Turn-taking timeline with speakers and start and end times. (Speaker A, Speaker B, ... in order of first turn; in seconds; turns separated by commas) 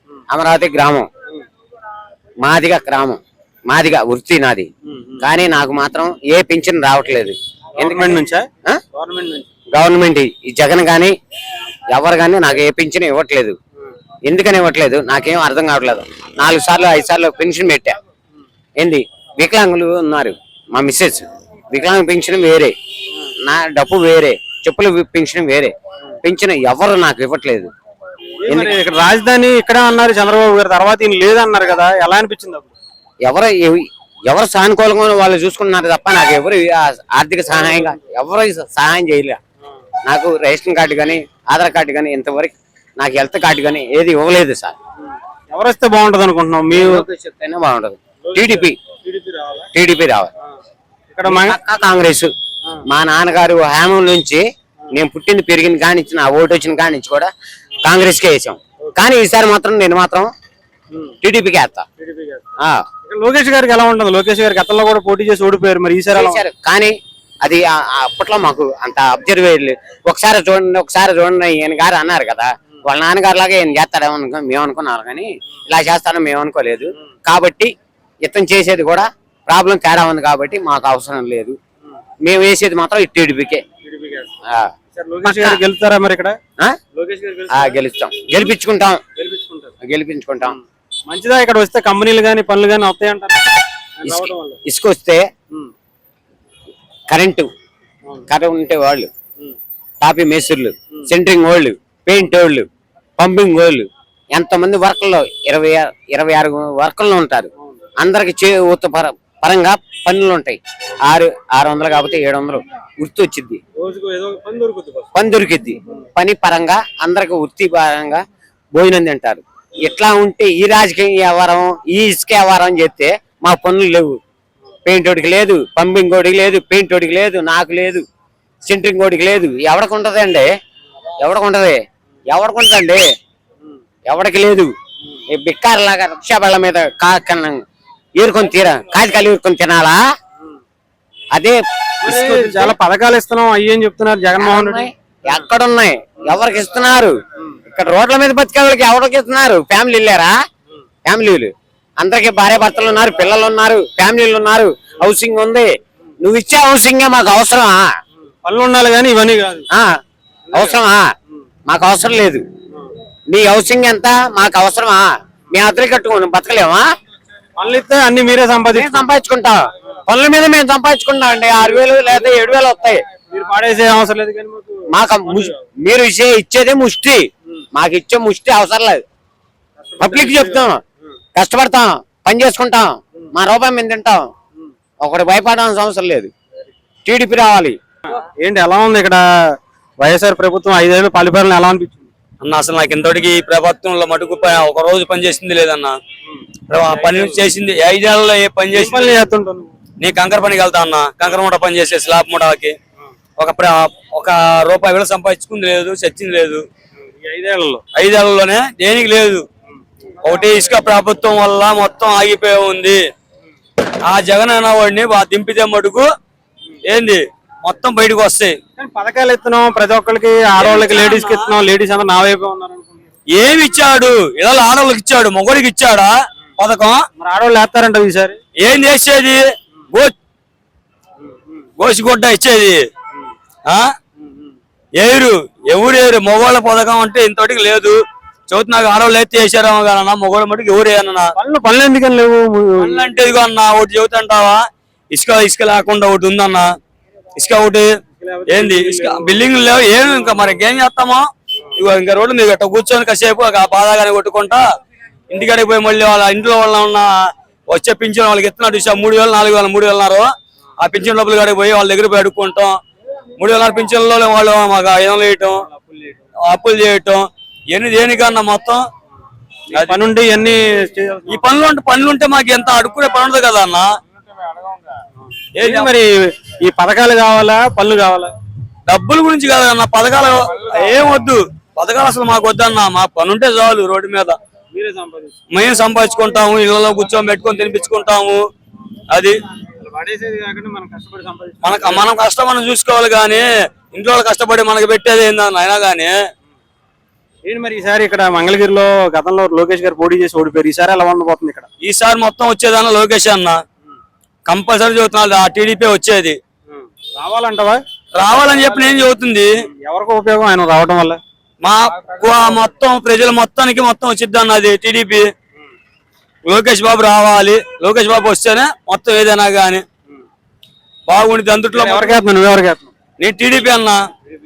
Speaker A: 0.3-1.1, Speaker A: 2.4-4.7, Speaker B: 4.9-5.2, Speaker A: 5.2-8.8, Speaker B: 7.8-9.5, Speaker A: 9.7-11.1, Speaker A: 11.9-13.6, Speaker A: 14.2-17.9, Speaker A: 18.8-22.7, Speaker A: 23.4-25.7, Speaker A: 26.2-27.7, Speaker B: 28.4-32.7, Speaker A: 28.5-28.7, Speaker A: 33.2-39.4, Speaker A: 40.1-44.8, Speaker B: 45.5-47.0, Speaker A: 46.7-48.8, Speaker B: 48.2-49.7, Speaker A: 49.7-50.3, Speaker B: 51.1-51.6, Speaker A: 51.2-52.3, Speaker A: 52.9-57.3, Speaker A: 57.8-60.3, Speaker A: 61.2-61.8, Speaker B: 62.0-62.4, Speaker B: 63.1-66.4, Speaker A: 66.1-77.7, Speaker A: 78.2-81.6, Speaker A: 82.2-83.6, Speaker B: 83.8-84.3, Speaker B: 84.9-86.4, Speaker A: 85.2-85.6, Speaker B: 86.9-87.8, Speaker A: 87.5-89.0, Speaker B: 89.2-89.7, Speaker A: 89.8-90.6, Speaker B: 90.4-93.4, Speaker B: 94.0-94.6, Speaker A: 94.0-95.2, Speaker A: 97.1-97.5, Speaker A: 98.3-99.1, Speaker A: 100.0-102.7, Speaker A: 103.2-113.6, Speaker B: 113.8-115.1, Speaker A: 115.1-118.2, Speaker A: 118.7-124.2, Speaker A: 124.8-128.0, Speaker A: 128.6-130.5, Speaker A: 131.2-131.8, Speaker A: 132.3-133.0, Speaker A: 134.1-134.7, Speaker A: 135.3-137.6, Speaker A: 138.2-140.0, Speaker A: 141.3-142.7, Speaker B: 142.0-144.8, Speaker A: 144.4-147.1, Speaker A: 147.8-150.3, Speaker A: 151.1-155.7, Speaker A: 156.2-157.9, Speaker B: 158.4-159.7, Speaker B: 160.5-160.8, Speaker A: 160.5-161.1, Speaker A: 161.7-162.4, Speaker A: 163.3-166.8, Speaker B: 167.6-169.1, Speaker A: 168.7-173.0, Speaker B: 173.3-175.5, Speaker A: 174.9-179.0, Speaker B: 179.8-180.7, Speaker A: 180.0-180.8, Speaker A: 181.3-184.3, Speaker A: 185.0-186.3, Speaker A: 187.0-187.8, Speaker B: 188.1-192.1, Speaker C: 192.4-195.9, Speaker C: 196.7-199.2, Speaker B: 198.7-199.7, Speaker C: 200.0-202.7, Speaker C: 203.4-206.6, Speaker B: 207.0-207.8, Speaker C: 207.9-209.4, Speaker C: 210.2-213.0, Speaker C: 214.1-216.1, Speaker C: 216.8-218.6, Speaker B: 218.8-223.0, Speaker C: 220.6-221.5, Speaker C: 223.3-227.0, Speaker B: 227.2-228.4, Speaker C: 228.6-230.1, Speaker B: 231.2-231.6, Speaker C: 231.8-232.8, Speaker B: 234.2-234.5, Speaker C: 235.0-238.0, Speaker C: 238.5-241.3, Speaker B: 241.4-243.1, Speaker C: 242.8-246.7, Speaker C: 247.3-247.9, Speaker B: 248.2-249.9, Speaker C: 248.5-254.6, Speaker C: 255.3-257.1, Speaker C: 257.7-260.3, Speaker C: 260.8-262.8, Speaker C: 263.4-265.7, Speaker B: 265.7-266.2, Speaker C: 266.4-268.8, Speaker B: 269.7-271.5, Speaker C: 269.7-270.0, Speaker C: 271.3-273.9, Speaker C: 275.6-275.9, Speaker B: 275.6-278.3, Speaker C: 278.9-284.4, Speaker B: 284.7-285.4, Speaker C: 285.5-288.4, Speaker C: 289.1-289.4, Speaker B: 289.7-292.1, Speaker C: 291.6-296.1, Speaker B: 297.4-301.7, Speaker C: 301.8-303.6, Speaker C: 304.5-306.4, Speaker B: 306.7-307.8, Speaker C: 308.1-309.5, Speaker B: 309.6-311.2, Speaker C: 311.6-315.3, Speaker C: 316.5-319.8, Speaker C: 321.1-322.2, Speaker B: 321.7-322.9, Speaker C: 323.2-324.0